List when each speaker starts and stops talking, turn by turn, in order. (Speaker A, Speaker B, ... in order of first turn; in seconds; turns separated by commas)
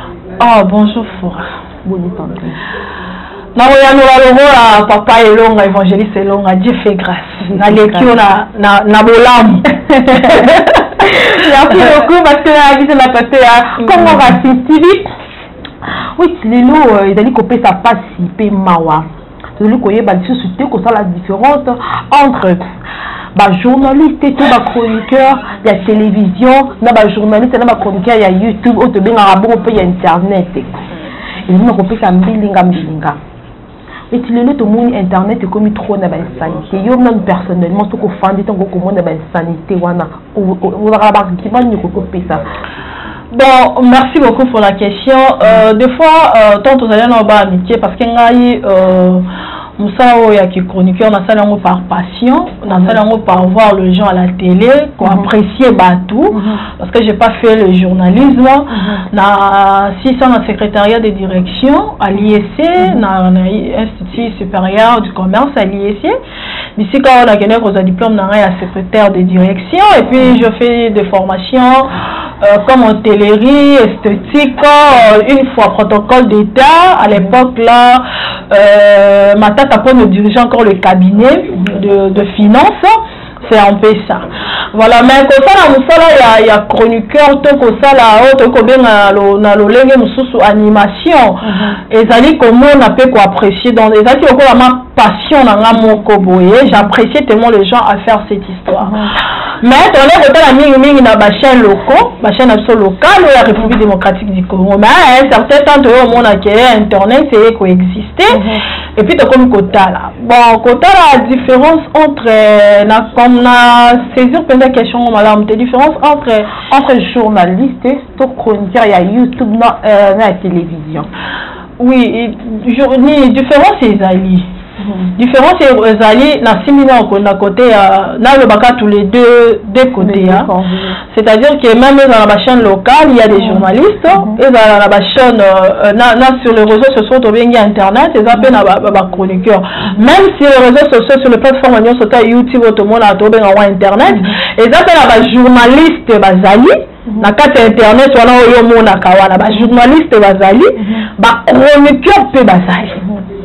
Speaker A: 0.4-1.5, Speaker B: 1.8-2.6, Speaker A: 3.6-10.6, Speaker B: 7.5-8.1, Speaker B: 9.9-15.1, Speaker A: 13.9-14.2, Speaker B: 16.2-19.1, Speaker B: 19.6-22.6, Speaker B: 23.3-30.7, Speaker B: 31.5-33.2, Speaker B: 34.1-42.5, Speaker A: 43.3-49.2, Speaker A: 49.8-66.1, Speaker B: 55.0-55.3, Speaker B: 58.8-59.0, Speaker A: 66.8-71.9, Speaker A: 72.4-99.0, Speaker B: 91.4-91.8, Speaker B: 98.8-99.1, Speaker A: 99.6-108.4, Speaker B: 108.3-108.6, Speaker A: 109.0-116.5, Speaker B: 116.7-121.1, Speaker A: 121.8-124.5, Speaker A: 125.2-130.5, Speaker B: 130.0-131.0, Speaker A: 131.1-153.0, Speaker B: 133.3-133.7